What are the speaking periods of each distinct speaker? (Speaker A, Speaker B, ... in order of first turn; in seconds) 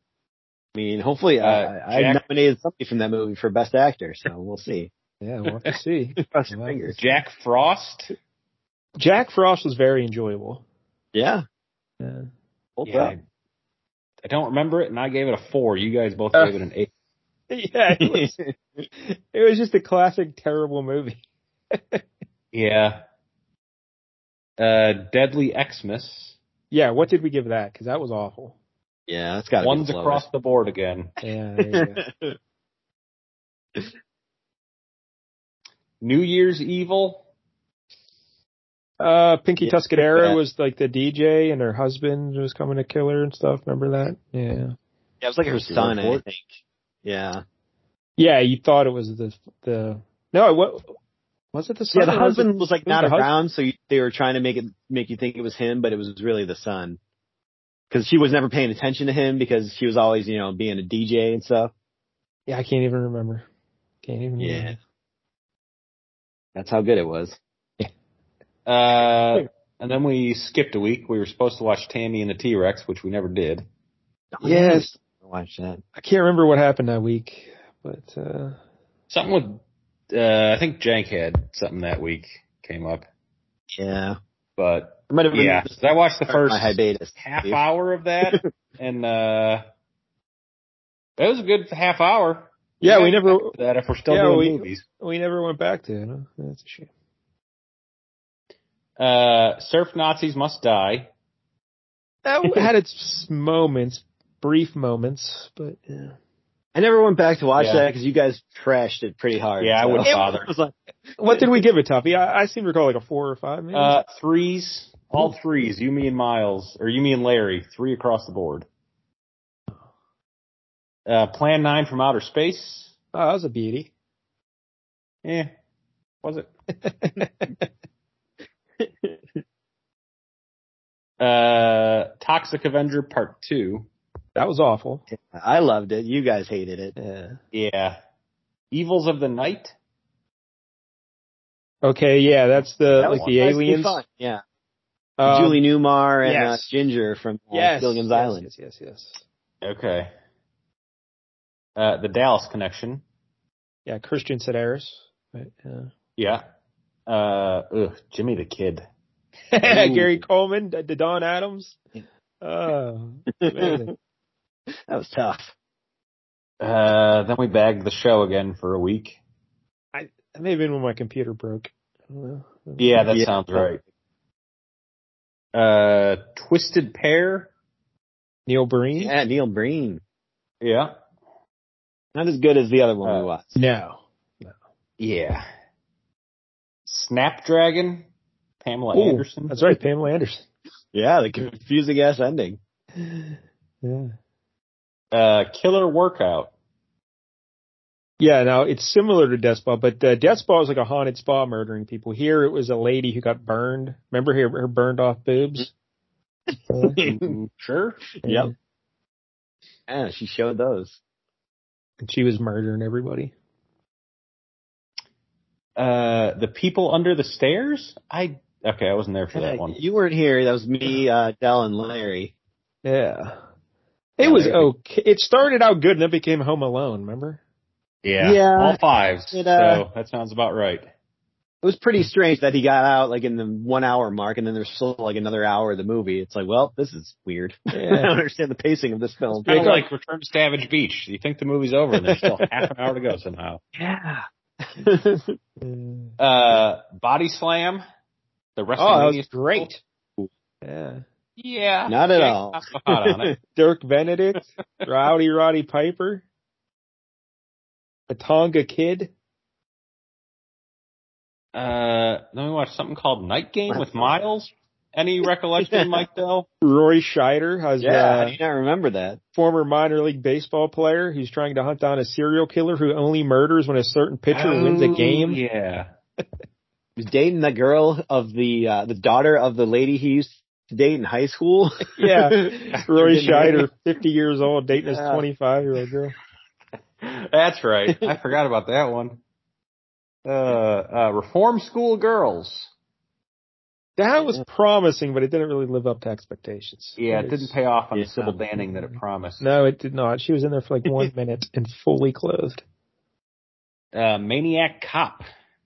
Speaker A: 0.7-4.9, 6.2-7.0, 11.1-11.4, 12.8-13.1, 18.0-18.5, 29.1-30.2, 31.7-32.4, 39.6-40.4, 45.2-46.5, 47.0-47.4, 51.9-57.0, 57.9-61.7, 64.4-64.7, 66.5-67.4, 74.3-75.8, 83.8-84.2, 85.1-85.7, 86.3-87.6, 106.7-110.7, 128.8-129.2, 135.1-136.9, 143.0-144.4, 145.2-148.5, 163.4-163.9, 164.9-165.5, 173.1-173.7, 179.0-180.0, 182.1-183.6, 190.9-192.6, 207.0-207.3, 208.2-208.5, 209.9-211.0, 219.3-222.3, 228.2-228.8, 229.3-229.8, 231.6-239.8, 243.7-245.3, 251.9-253.3, 263.7-264.1, 267.8-269.2, 277.0-283.7, 284.9-285.2, 297.9-298.4
Speaker B: 1.4-2.2, 7.0-8.1, 12.8-13.2, 14.2-16.9, 22.5-23.0, 24.6-26.4, 29.6-31.1, 36.0-37.2, 45.5-46.2, 68.7-73.6, 79.1-79.6, 80.1-83.0, 84.6-89.6, 91.2-94.8, 99.0-101.1, 107.6-107.9, 109.6-110.5, 113.7-118.7, 121.0-122.9, 125.2-125.5, 126.2-126.5, 131.2-133.9, 137.5-137.9, 138.7-139.7, 142.9-143.3, 149.6-150.1, 151.8-153.0, 156.2-156.4, 157.1-158.8, 159.6-160.2, 166.6-169.2, 172.8-173.8, 175.5-177.5, 180.6-180.9, 185.0-185.4, 186.8-188.1, 188.6-189.5, 195.1-196.5, 207.0-208.1, 215.8-219.8, 224.2-224.7, 228.0-230.9, 239.4-243.6, 246.2-247.8, 248.6-249.7, 251.4-253.3, 261.5-266.5, 274.3-275.9, 287.0-289.2, 290.2-292.7, 297.0-299.4, 303.9-305.2
Speaker C: 5.2-7.0, 9.0-10.6, 12.0-12.3, 17.5-18.4, 19.0-21.2, 21.7-22.0, 26.7-28.5, 31.2-32.0, 39.0-44.7, 48.2-51.0, 51.5-53.3, 62.5-63.5, 64.0-64.8, 74.4-74.9, 76.0-78.6, 92.8-93.5, 94.1-96.9, 102.2-106.1, 111.2-113.9, 123.1-123.9, 126.8-127.6, 134.3-135.0, 137.0-137.4, 141.8-144.0, 145.2-145.6, 146.2-146.8, 147.5-149.2, 153.8-155.9, 159.5-161.8, 162.4-163.9, 169.9-173.2, 178.5-179.1, 183.6-184.5, 188.9-190.4, 193.0-194.1, 198.2-205.7, 206.7-207.0, 208.2-208.5, 212.0-213.3, 222.8-223.4, 224.2-227.4, 237.7-238.1, 239.3-239.8, 245.6-246.1, 248.8-249.8, 250.6-251.0, 253.5-256.2, 258.1-259.1, 266.6-268.4, 269.3-275.4, 281.9-286.1, 294.0-297.5, 299.4-302.6